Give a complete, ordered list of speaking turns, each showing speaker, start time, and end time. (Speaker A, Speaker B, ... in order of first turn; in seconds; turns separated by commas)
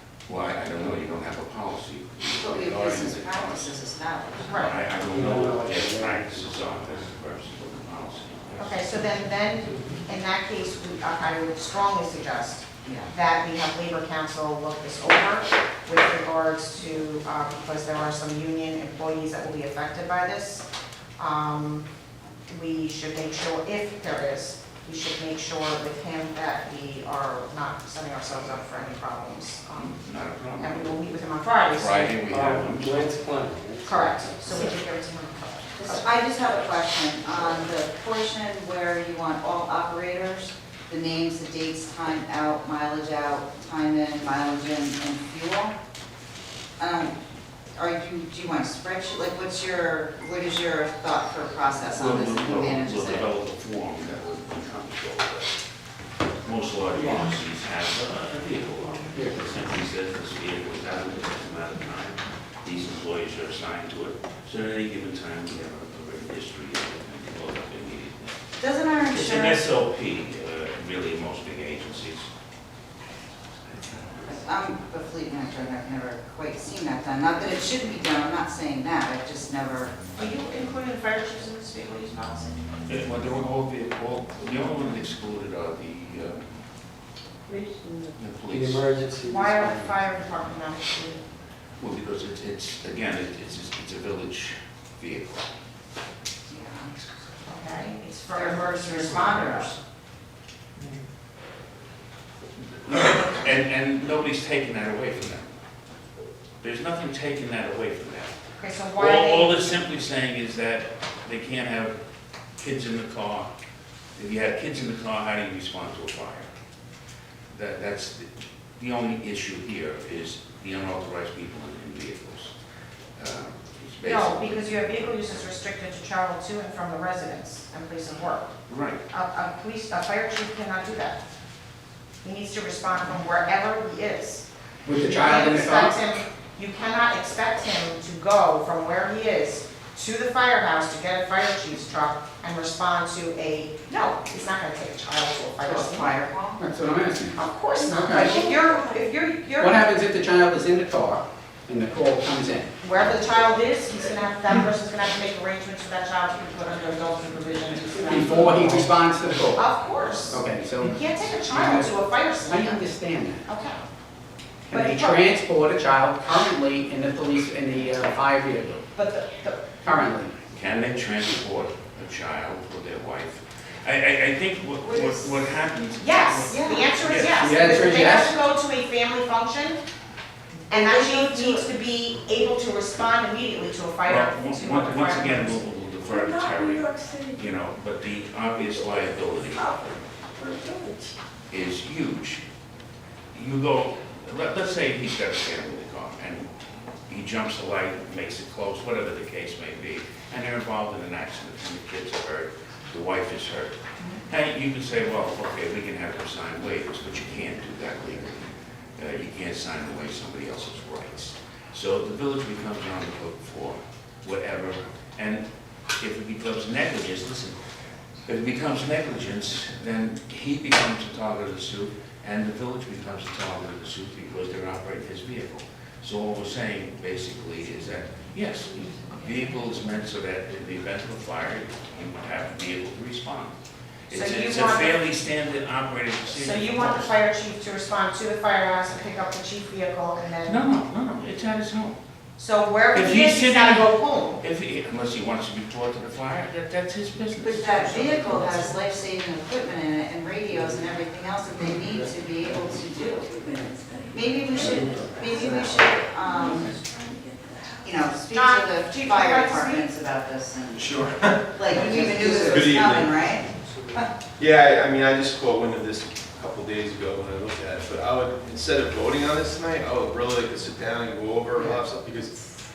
Speaker A: 0.3-3.8, Speaker B: 2.4-4.7, Speaker C: 4.5-4.8, Speaker A: 4.5-9.0, Speaker D: 5.1-6.5, Speaker C: 8.6-20.6, Speaker B: 12.8-13.1, Speaker C: 21.2-21.9, Speaker C: 22.5-30.0, Speaker A: 29.7-31.1, Speaker C: 30.6-32.2, Speaker A: 31.7-33.2, Speaker D: 32.2-34.6, Speaker C: 33.8-36.1, Speaker B: 35.8-45.8, Speaker B: 46.8-47.2, Speaker B: 47.7-53.3, Speaker A: 52.0-55.6, Speaker A: 56.4-68.4, Speaker E: 59.1-59.5, Speaker B: 68.6-69.7, Speaker A: 69.0-72.3, Speaker A: 73.8-74.1, Speaker B: 74.2-80.1, Speaker C: 80.2-82.6, Speaker A: 82.8-86.5, Speaker A: 88.2-88.9, Speaker D: 88.5-90.0, Speaker C: 89.2-91.2, Speaker A: 91.8-95.5, Speaker B: 96.5-97.0, Speaker C: 97.4-99.6, Speaker B: 98.3-99.7, Speaker A: 99.1-99.8, Speaker A: 102.6-105.5, Speaker A: 106.6-108.3, Speaker C: 108.6-109.8, Speaker A: 108.9-112.0, Speaker A: 112.6-113.5, Speaker A: 114.2-116.5, Speaker A: 117.5-122.5, Speaker A: 123.2-125.1, Speaker C: 124.0-128.5, Speaker A: 128.7-129.0, Speaker C: 129.1-131.2, Speaker C: 132.2-146.1, Speaker E: 134.8-136.0, Speaker B: 145.6-146.6, Speaker E: 146.6-148.5, Speaker C: 147.3-149.8, Speaker F: 148.2-149.1, Speaker E: 149.6-152.7, Speaker C: 152.8-158.9, Speaker A: 157.6-158.5, Speaker E: 158.1-163.4, Speaker C: 159.5-162.8, Speaker C: 163.4-163.8, Speaker E: 164.7-168.8, Speaker C: 164.7-165.3, Speaker C: 168.9-170.1, Speaker E: 169.8-170.3, Speaker A: 170.5-177.5, Speaker B: 174.8-175.6, Speaker C: 176.0-179.8, Speaker B: 176.5-177.2, Speaker E: 177.3-178.4, Speaker C: 180.7-185.6, Speaker F: 180.8-181.7, Speaker A: 184.1-189.7, Speaker F: 186.0-187.4, Speaker F: 189.5-191.1, Speaker A: 191.5-192.4, Speaker A: 193.3-196.5, Speaker A: 197.1-215.4, Speaker A: 216.0-217.6, Speaker A: 218.3-233.5, Speaker F: 228.8-229.7, Speaker A: 234.1-237.2, Speaker C: 234.1-235.0, Speaker C: 236.3-240.6, Speaker A: 240.4-242.0, Speaker C: 242.4-244.4, Speaker A: 242.9-248.8, Speaker B: 247.4-253.3, Speaker D: 250.5-250.8, Speaker D: 251.8-252.6, Speaker F: 252.9-258.3, Speaker B: 254.1-256.8, Speaker D: 254.6-255.7, Speaker B: 257.8-264.1, Speaker C: 258.3-259.9, Speaker G: 260.8-263.1, Speaker D: 262.1-262.5, Speaker G: 264.4-272.4